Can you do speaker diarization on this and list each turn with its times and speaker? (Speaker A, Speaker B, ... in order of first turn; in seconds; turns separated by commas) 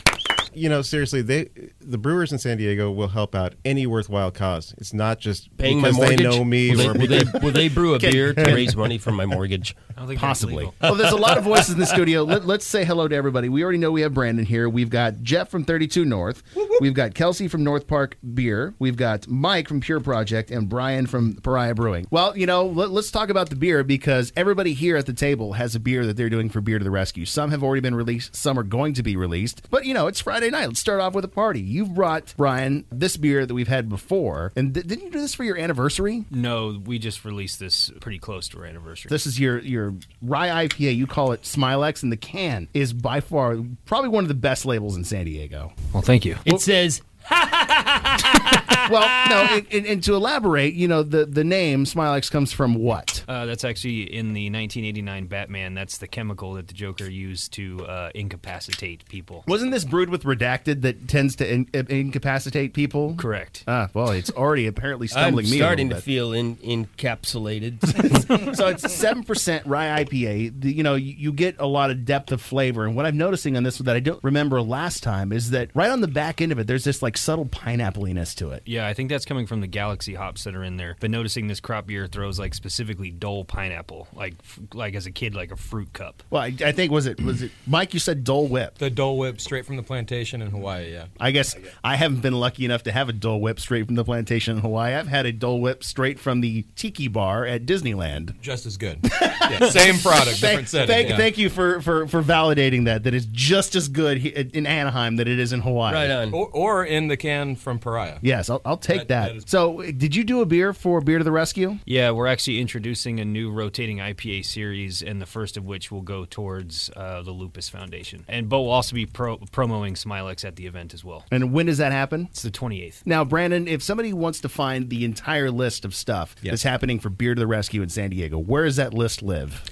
Speaker A: 0.5-7.5, Speaker B: 5.6-9.8, Speaker C: 7.9-8.8, Speaker D: 9.9-10.9, Speaker C: 10.2-36.3, Speaker B: 11.5-11.9, Speaker D: 36.3-39.2, Speaker C: 39.1-45.7, Speaker D: 45.9-46.5, Speaker B: 46.5-47.1, Speaker D: 47.6-48.7, Speaker B: 48.8-49.6, Speaker C: 48.8-53.2, Speaker D: 53.3-59.5, Speaker C: 59.5-66.0, Speaker D: 63.1-63.6, Speaker B: 65.1-68.3, Speaker C: 68.0-78.6, Speaker D: 78.7-86.2, Speaker C: 86.3-88.8, Speaker E: 88.8-91.1, Speaker C: 91.2-98.4, Speaker E: 98.4-101.3, Speaker C: 99.1-106.2, Speaker B: 105.9-106.3, Speaker E: 106.3-108.2, Speaker C: 108.2-111.8, Speaker E: 108.9-109.5, Speaker D: 111.9-121.3, Speaker C: 121.3-122.3, Speaker D: 122.3-123.0, Speaker C: 123.0-129.7